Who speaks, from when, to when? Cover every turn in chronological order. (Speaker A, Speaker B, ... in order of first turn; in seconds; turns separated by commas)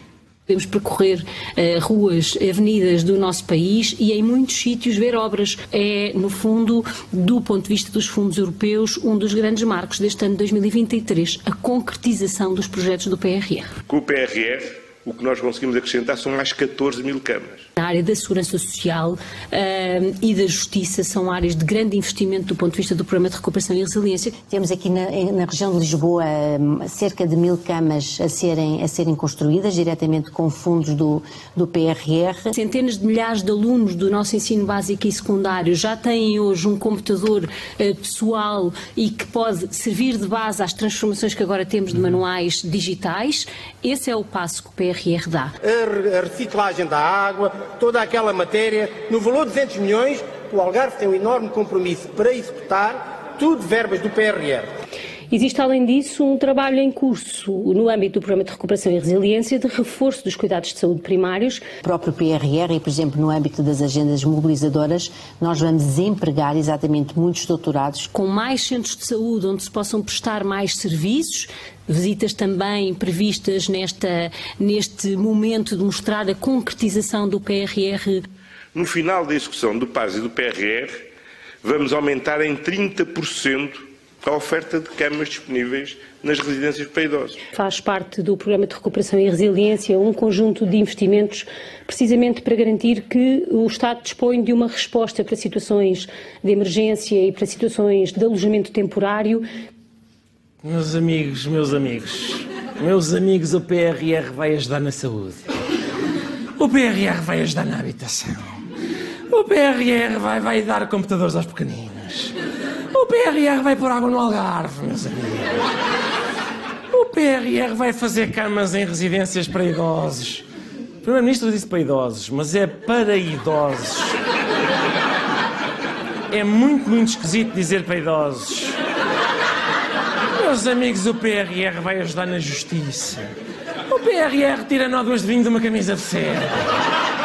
Speaker A: 0.5-13.7, Speaker B: 13.9-17.6, Speaker A: 17.8-24.4, Speaker C: 24.4-32.5, Speaker A: 32.6-45.5, Speaker D: 45.6-54.7, Speaker A: 55.3-61.7, Speaker C: 61.8-68.1, Speaker A: 68.1-78.2, Speaker B: 78.7-81.1, Speaker B: 81.6-87.4, Speaker A: 87.5-99.5, Speaker E: 100.6-105.4, Speaker E: 106.6-108.5, Speaker E: 109.3-112.3, Speaker E: 112.9-115.6, Speaker E: 116.9-120.5, Speaker E: 121.0-124.2, Speaker E: 126.3-128.8, Speaker E: 130.3-133.3, Speaker E: 133.9-136.6